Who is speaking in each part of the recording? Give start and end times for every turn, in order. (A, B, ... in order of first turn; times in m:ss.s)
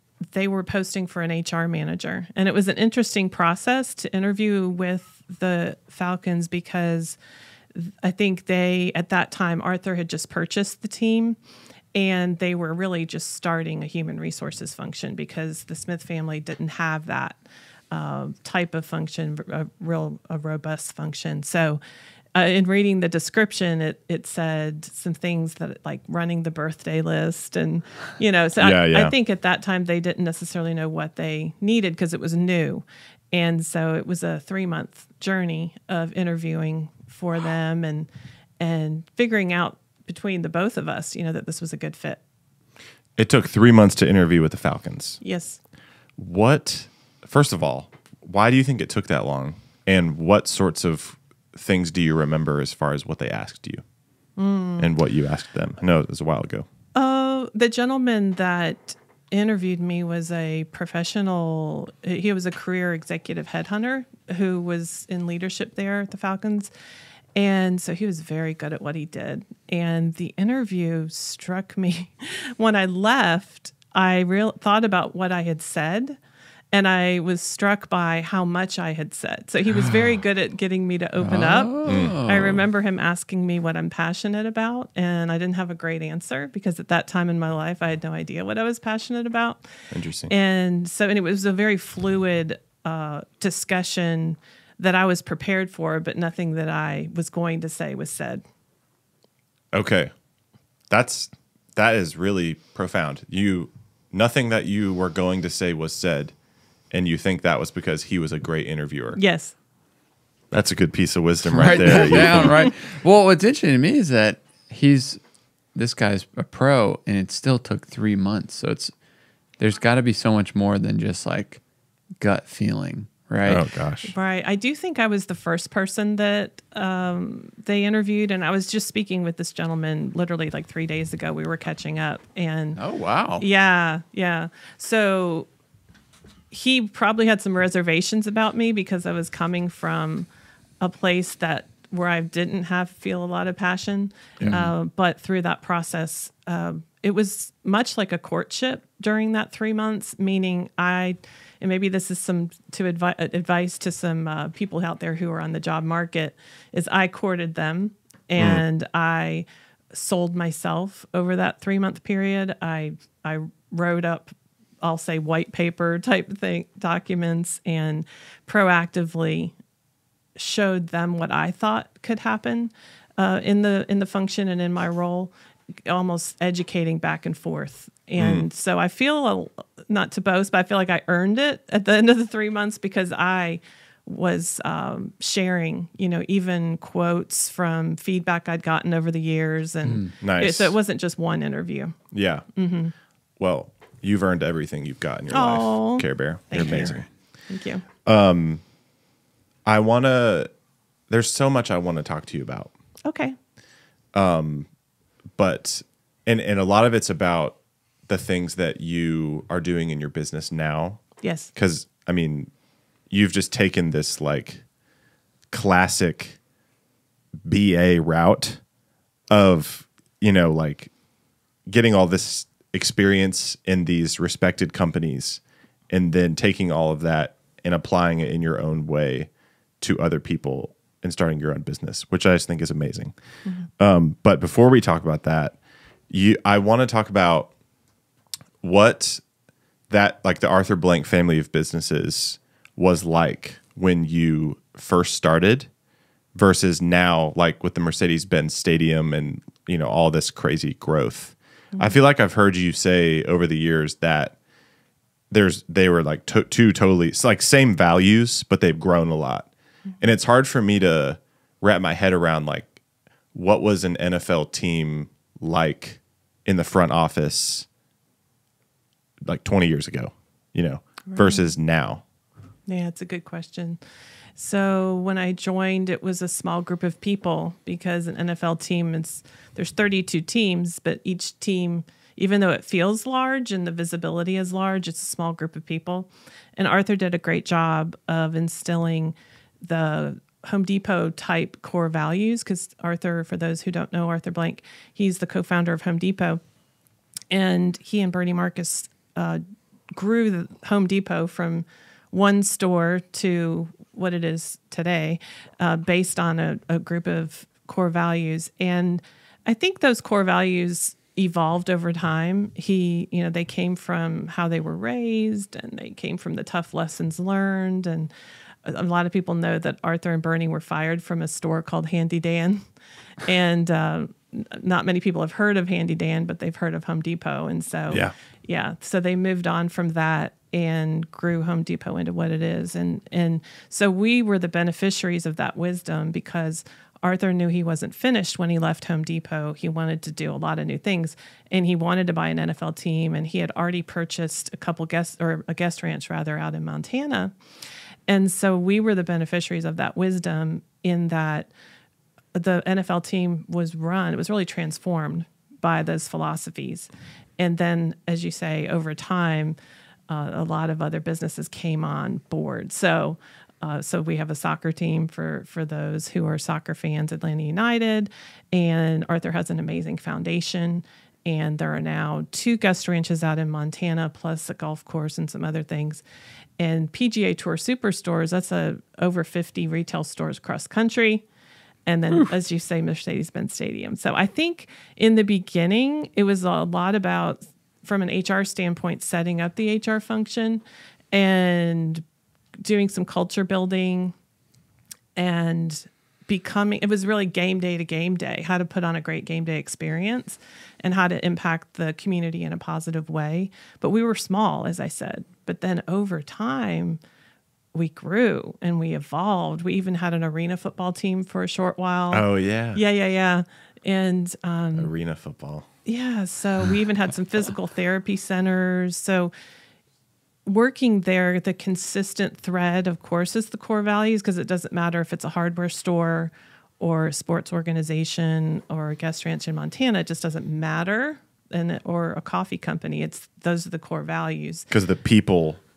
0:00.3-0:07.2 A
0:07.7-0:11.4 A
0:11.9-0:17.4 A
0:17.9-0:21.8 A
0:22.3-0:38.1 A
0:28.6-0:29.1 B
0:38.6-0:42.2 A
0:43.2-0:45.2 B
0:45.2-0:45.6 A
0:46.2-0:53.8 B
0:54.4-0:54.9 A
0:54.8-0:56.6 B
0:56.9-1:06.7 A
1:07.3-1:16.2 A
1:16.7-1:29.6 A
1:21.2-1:22.6 C
1:21.8-1:22.2 B
1:29.9-1:30.3 B
1:30.3-1:38.4 A
1:39.7-1:40.1 B
1:40.9-1:46.3 B
1:46.9-1:49.2 B
1:49.2-1:49.5 A
1:50.5-1:52.7 B
1:51.4-1:55.2 C
1:55.7-1:58.9 C
1:59.6-2:01.6 C
2:02.2-2:03.6 C
2:03.4-2:04.1 B
2:04.0-2:12.8 A
2:12.8-2:13.4 C
2:13.4-2:15.5 A
2:16.5-2:20.3 A
2:20.8-2:49.5 A
2:24.4-2:24.7 C
2:38.4-2:38.6 B
2:50.4-2:55.3 A
2:55.8-3:12.0 A
2:58.2-2:58.4 B
3:09.8-3:10.1 C
3:10.2-3:10.8 B
3:12.1-3:12.4 B
3:12.5-3:12.9 A
3:13.4-3:17.0 B
3:15.3-3:17.8 A
3:18.0-3:18.6 B
3:19.6-3:20.5 B
3:21.1-3:22.7 B
3:23.0-3:23.4 A
3:24.1-3:24.7 B
3:25.4-3:32.5 B
3:31.2-3:31.5 A
3:33.1-3:34.6 B
3:35.5-3:36.4 B
3:37.4-3:38.6 B
3:39.3-3:40.9 B
3:41.7-3:49.3 B
3:49.8-3:53.1 B
3:53.8-3:55.6 B
3:56.1-3:57.5 B
3:58.6-3:59.2 B
3:59.9-4:05.7 B
4:06.3-4:14.4 B
4:15.3-4:22.7 B
4:23.3-4:27.6 B
4:29.2-4:32.0 B
4:31.1-4:31.4 A
4:32.7-4:33.8 A
4:34.4-4:56.4 A
4:57.3-4:59.4 A
4:59.9-5:18.1 A
5:18.6-5:22.6 A
5:23.2-5:47.3 A
5:48.1-5:51.5 A
5:52.3-5:59.6 A
6:00.1-6:16.0 A
6:16.6-6:21.2 A
6:21.8-6:32.0 A
6:32.6-6:34.1 A
6:35.2-6:47.0 A
6:47.7-6:54.9 A
6:52.1-6:52.8 B
6:54.7-6:55.7 B
6:55.8-6:59.3 A
7:00.4-7:14.7 A
7:14.7-7:15.6 B